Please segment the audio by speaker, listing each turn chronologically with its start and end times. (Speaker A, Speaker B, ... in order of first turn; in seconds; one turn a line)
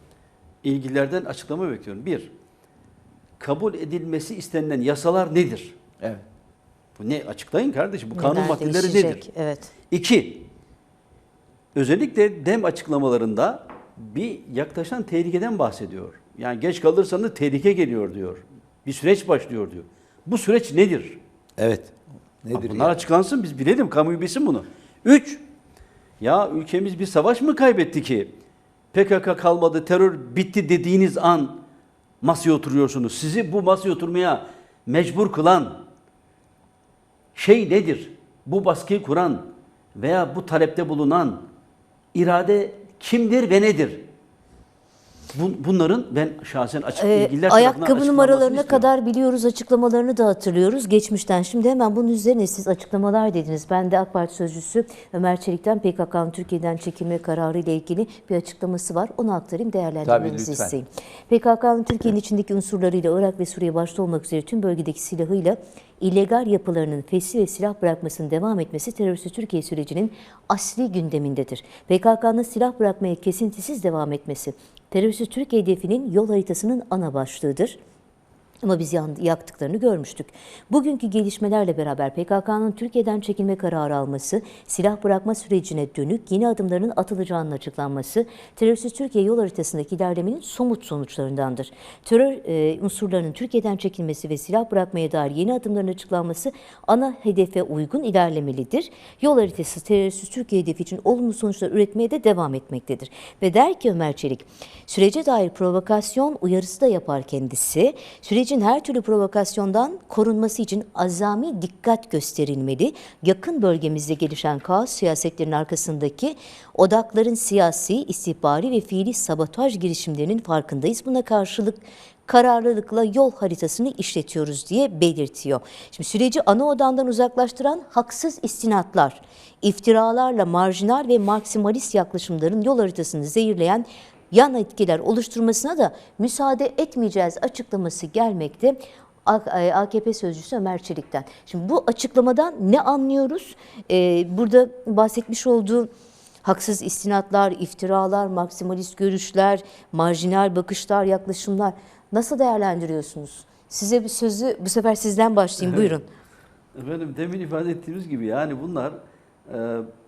Speaker A: 0.6-2.3
Speaker A: 3.4-5.8
Speaker A: 7.0-9.2
Speaker B: 8.1-9.7
Speaker A: 9.9-10.5
Speaker A: 11.7-21.2
Speaker C: 21.6-23.0
Speaker A: 22.5-25.4
Speaker A: 26.2-28.3
Speaker A: 28.9-31.6
Speaker A: 32.2-35.8
Speaker A: 37.3-41.5
Speaker A: 42.1-44.0
Speaker A: 45.3-48.9
Speaker B: 47.0-77.8
Speaker C: 60.0-60.7
Speaker B: 78.6-145.9
Speaker B: 146.4-156.1
Speaker A: 155.6-156.0
Speaker A: 156.8-159.9